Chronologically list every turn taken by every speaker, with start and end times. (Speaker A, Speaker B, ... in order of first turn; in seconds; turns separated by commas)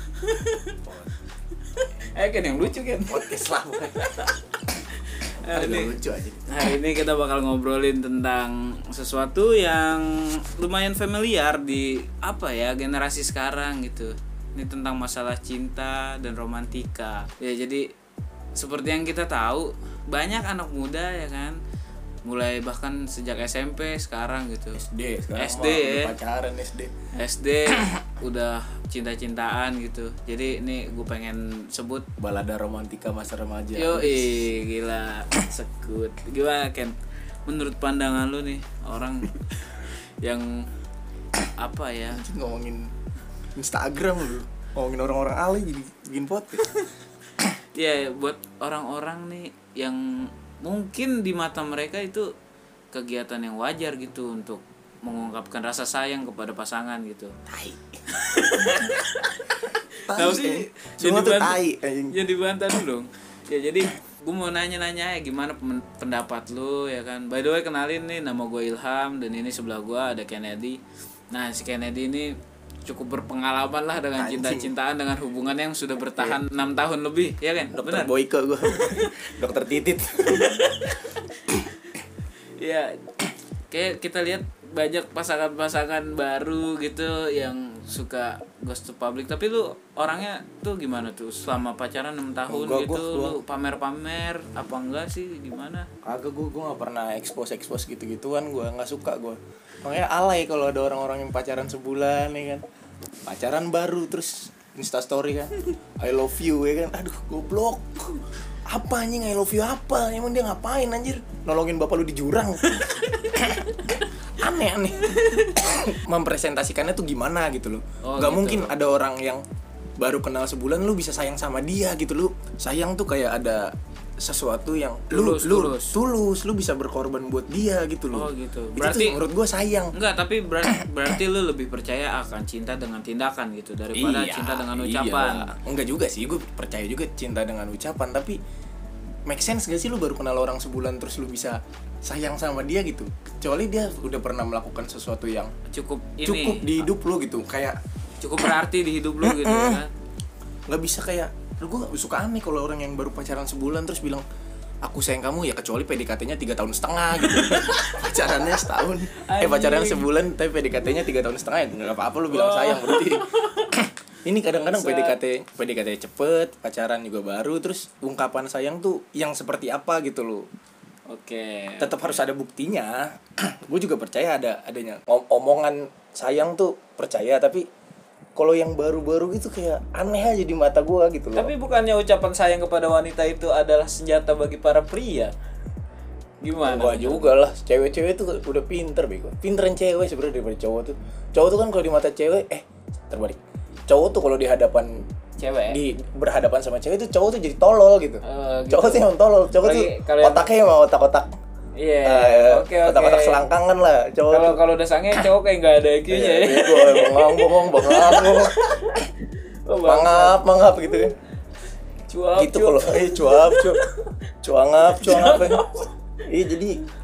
Speaker A: 0.1-0.8, Speaker A: 1.7-4.4, Speaker B: 3.1-4.3, Speaker A: 5.0-5.9, Speaker B: 5.5-6.5, Speaker A: 6.5-17.9, Speaker A: 18.6-21.6, Speaker A: 22.3-24.8, Speaker B: 24.8-26.9, Speaker A: 25.4-26.1, Speaker A: 27.1-32.1, Speaker B: 27.7-28.0, Speaker B: 32.2-34.4, Speaker A: 33.8-40.7, Speaker A: 41.6-42.2, Speaker B: 42.1-42.9, Speaker B: 43.6-46.7, Speaker A: 47.8-52.3, Speaker A: 52.9-57.4, Speaker B: 57.5-58.0, Speaker A: 58.1-61.6, Speaker B: 60.1-62.2, Speaker A: 62.1-70.8, Speaker A: 71.3-78.1, Speaker B: 74.2-74.7, Speaker B: 77.7-80.7, Speaker A: 78.7-79.1, Speaker A: 80.3-81.7, Speaker A: 82.6-83.0, Speaker A: 83.7-95.9, Speaker B: 92.5-93.4, Speaker B: 96.0-102.6, Speaker B: 103.3-119.4, Speaker A: 112.7-113.3, Speaker A: 115.0-115.6, Speaker A: 118.0-118.7, Speaker B: 120.0-129.9, Speaker A: 125.1-126.0, Speaker A: 128.1-129.2, Speaker A: 129.9-135.5, Speaker B: 133.9-138.4, Speaker B: 139.3-145.5, Speaker A: 145.7-146.8, Speaker B: 146.2-147.8, Speaker A: 148.2-149.9, Speaker B: 149.2-149.8, Speaker B: 150.7-154.2, Speaker B: 154.8-170.5, Speaker A: 157.2-158.6, Speaker A: 159.1-160.1, Speaker A: 162.3-163.7, Speaker A: 164.5-165.2, Speaker A: 171.1-171.9, Speaker B: 171.8-177.7, Speaker B: 178.4-181.5, Speaker A: 181.4-185.3, Speaker A: 186.4-187.3, Speaker B: 186.6-195.1, Speaker A: 195.4-195.8, Speaker B: 195.7-201.3, Speaker A: 198.2-200.5, Speaker A: 201.8-203.4, Speaker B: 202.1-204.6, Speaker A: 204.3-210.4, Speaker B: 206.1-208.9, Speaker B: 209.9-211.1, Speaker A: 212.1-213.9, Speaker B: 212.4-213.8, Speaker B: 214.4-215.7, Speaker A: 214.8-215.9, Speaker B: 216.3-216.8